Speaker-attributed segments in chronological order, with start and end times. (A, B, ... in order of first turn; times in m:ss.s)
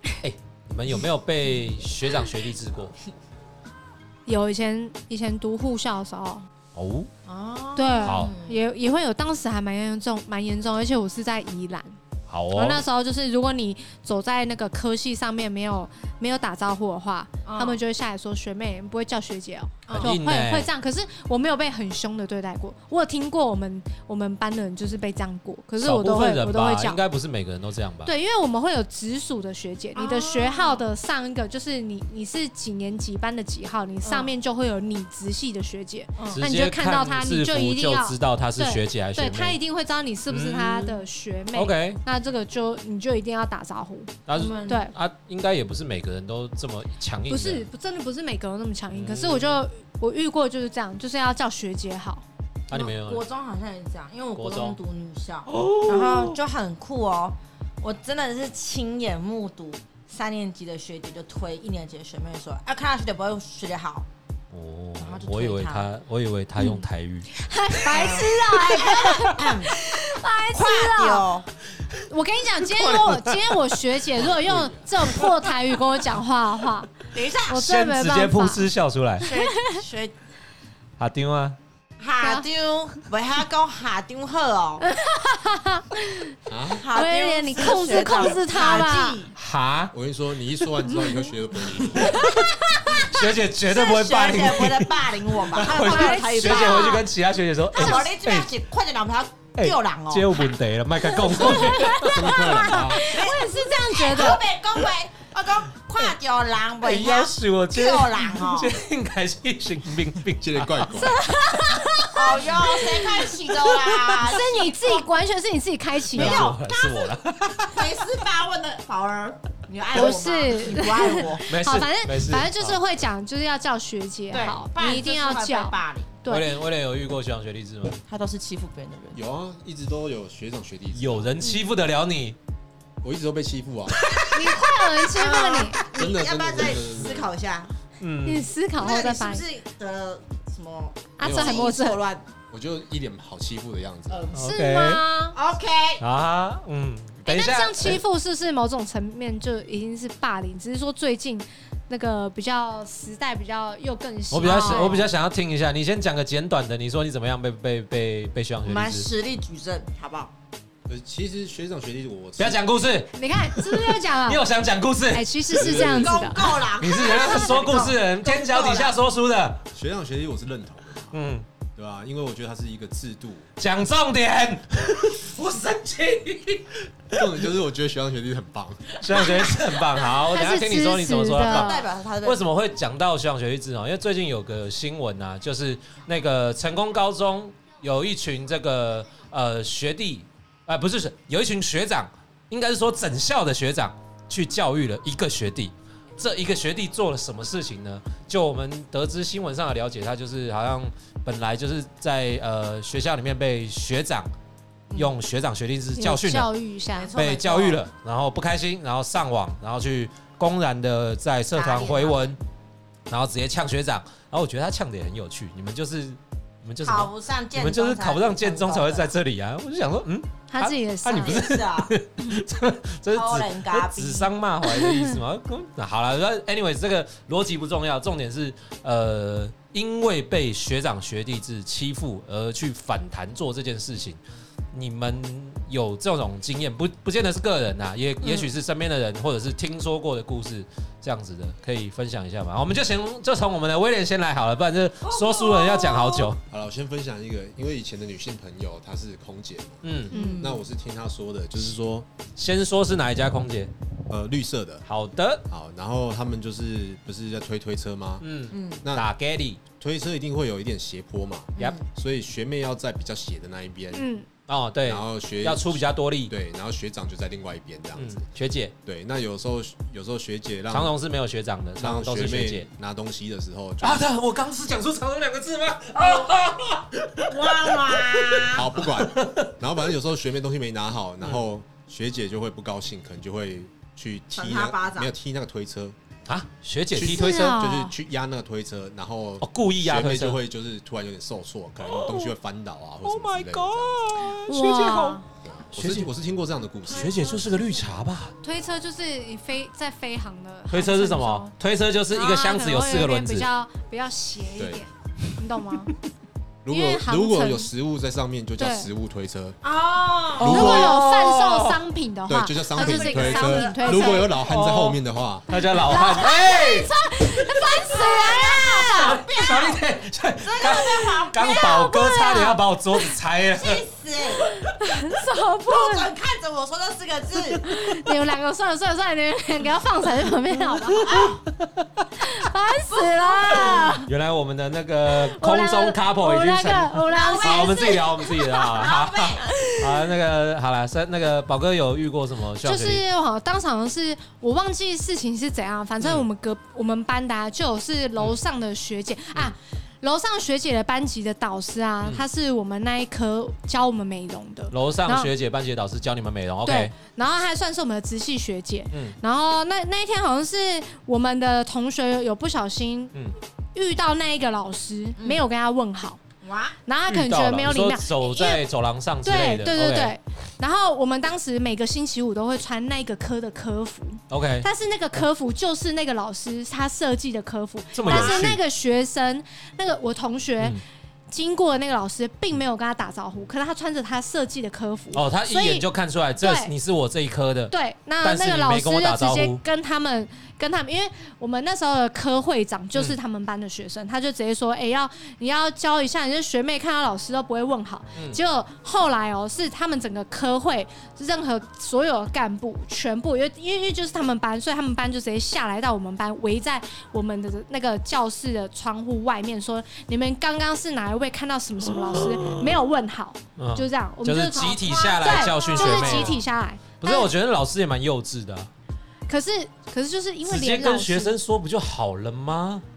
0:00.2-0:02.9 A
0:04.2-0:06.4 B
0:06.7-0:07.1 A
0:07.2-0:08.6 C
0:07.8-0:12.0 B
0:08.0-0:08.3 A
0:12.3-0:12.8 A
0:12.5-0:27.0 B
0:17.4-0:17.8 C
0:19.8-0:20.1 C
0:19.9-0:20.7 A
0:25.8-0:28.1 A
0:28.0-0:44.9 B
0:29.9-0:30.9 C
0:34.0-0:34.3 C
0:36.2-0:36.4 C
0:36.3-0:39.6 A
0:40.3-0:41.0 A
0:41.5-0:42.0 A
0:44.3-0:47.6 A
0:44.3-0:44.8 C
0:47.3-0:52.2 B
0:48.9-0:49.6 A
0:52.7-0:53.2 A
0:52.7-1:04.1 C
0:54.3-0:54.8 A
0:55.5-0:56.4 A
1:04.5-1:07.3 A
1:05.0-1:05.8 C
1:06.6-1:11.3 B
1:07.8-1:09.8 C
1:10.5-1:11.5 C
1:12.1-1:18.7 B
1:12.7-1:13.8 A
1:14.2-1:15.1 D
1:17.1-1:17.6 C
1:17.5-1:19.3 A
1:19.2-1:20.1 C
1:19.2-1:19.8 B
1:21.0-1:21.6 A
1:22.0-1:24.8 C
1:22.2-1:22.5 B
1:24.8-1:26.3 B
1:26.5-1:26.8 D
1:26.8-1:29.3 C
1:26.9-1:29.2 B
1:29.4-1:29.9 A
1:29.9-1:32.3 D
1:31.8-1:37.1 C
1:33.0-1:38.5 A
1:35.7-1:37.0 B
1:37.7-1:40.5 C
1:39.6-1:42.3 A
1:41.2-1:44.4 B
1:41.3-1:41.8 C
1:41.7-1:43.0 D
1:42.8-1:48.8 C
1:46.8-1:52.4 A
1:50.4-1:51.2 D
1:50.9-1:52.1 B
1:52.1-1:55.1 C
1:53.7-1:54.2 A
1:54.2-1:56.5 B
1:56.1-2:01.4 C
1:56.1-1:58.0 A
1:59.9-2:06.5 B
2:01.4-2:02.8 A
2:04.3-2:06.1 C
2:06.3-2:08.0 A
2:08.0-2:09.2 C
2:09.1-2:11.4 D
2:10.9-2:12.4 A
2:13.0-2:14.1 D
2:14.0-2:17.7 C
2:14.3-2:15.8 B
2:15.9-2:17.3 D
2:18.0-2:18.5 A
2:18.2-2:19.4 B
2:18.8-2:22.2 C
2:21.2-2:22.0 B
2:21.2-2:21.7 D
2:22.5-2:24.2 D
2:24.1-2:24.4 C
2:24.3-2:25.0 A
2:24.4-2:25.4 B
2:25.3-2:26.0 C
2:26.0-2:28.0 A
2:27.2-2:35.1 B
2:34.3-2:39.1 A
2:34.4-2:35.1 C
2:38.6-2:40.3 C
2:40.9-2:42.6 D
2:42.4-2:45.3 A
2:43.1-2:44.4 B
2:45.1-2:46.6 B
2:45.5-2:46.4 D
2:45.6-2:49.0 C
2:46.7-2:49.6 A
2:49.7-2:51.1 D
2:51.1-2:51.4 A
2:51.7-2:53.5 D
2:53.6-2:57.3 A
2:57.1-2:59.0 D
2:59.0-3:24.3 A
3:00.3-3:01.8 B
3:01.4-3:02.4 C
3:24.9-3:25.2 C
3:24.9-3:26.5 A
3:26.0-3:27.1 B
3:26.9-3:27.8 C
3:27.1-3:32.4 A
3:31.5-3:32.3 C
3:33.1-3:54.2 A
3:36.8-3:39.1 C
3:40.5-3:41.4 B
3:41.1-3:41.9 C
3:43.1-3:44.3 C
3:44.7-3:45.2 B
3:54.7-4:06.4 A
4:05.0-4:06.3 C
4:06.5-4:12.1 D
4:09.8-4:10.1 A
4:10.1-4:10.6 C
4:10.1-4:10.4 B
4:12.4-4:13.7 A
4:14.1-4:14.8 D
4:14.9-4:15.4 A
4:15.5-4:18.2 D
4:18.2-4:19.6 A
4:18.5-4:18.8 C
4:18.8-4:19.1 D
4:19.8-4:24.0 D
4:21.6-4:21.8 C
4:24.0-4:24.3 B
4:24.5-4:26.3 A
4:24.8-4:28.2 D
4:28.0-4:28.7 A
4:28.8-4:30.9 D
4:30.7-4:32.7 A
4:31.8-4:34.1 D
4:33.8-4:39.5 A
4:36.0-4:36.3 C
4:37.3-4:38.7 C
4:38.5-4:46.0 D
4:44.3-4:45.1 C
4:46.2-4:47.6 A
4:46.9-4:54.2 D
4:47.0-4:47.9 B
4:49.4-4:50.4 A
4:51.9-4:52.3 A
4:53.0-4:55.2 A
4:54.4-4:55.2 B
4:55.4-4:57.3 D
4:55.7-4:56.1 A
4:56.9-4:58.3 A
4:57.2-4:57.8 C
4:58.4-5:01.5 B
5:00.7-5:03.5 A
5:02.1-5:05.9 B
5:04.6-5:04.8 D
5:06.6-5:09.6 D
5:06.7-5:07.7 B
5:08.6-5:08.9 B
5:09.6-5:10.9 C
5:10.4-5:11.8 A
5:10.4-5:14.4 B
5:10.4-5:11.0 D
5:12.3-5:15.5 D
5:12.7-5:14.2 C
5:14.4-5:16.9 A
5:15.8-5:19.2 B
5:17.4-5:19.8 C
5:18.8-5:23.8 A
5:20.4-5:21.6 C
5:21.4-5:23.1 B
5:23.5-5:24.4 C
5:24.4-5:26.1 B
5:25.7-5:27.7 C
5:27.6-5:31.3 B
5:30.8-5:31.8 A
5:31.0-5:31.4 C
5:32.2-5:34.1 B
5:32.9-5:34.0 C
5:34.0-5:43.0 A
5:35.3-5:38.8 B
5:37.1-5:39.6 C
5:42.6-5:55.3 B
5:46.0-5:46.2 A
5:54.7-5:56.9 A
5:56.6-6:03.1 B
6:03.7-6:06.2 B
6:05.2-6:05.4 C
6:06.4-6:06.8 C
6:06.8-6:08.6 B
6:07.1-6:10.2 A
6:09.2-6:25.8 B
6:14.3-6:14.7 A
6:18.0-6:18.6 A
6:18.0-6:18.4 C
6:25.1-6:29.6 A
6:26.4-6:26.7 B
6:27.7-6:57.3 B
6:52.0-6:52.6 A
6:53.6-6:56.4 A
6:55.6-6:56.0 C
6:57.0-6:58.7 A
6:59.3-7:01.4 B
7:00.4-7:02.8 A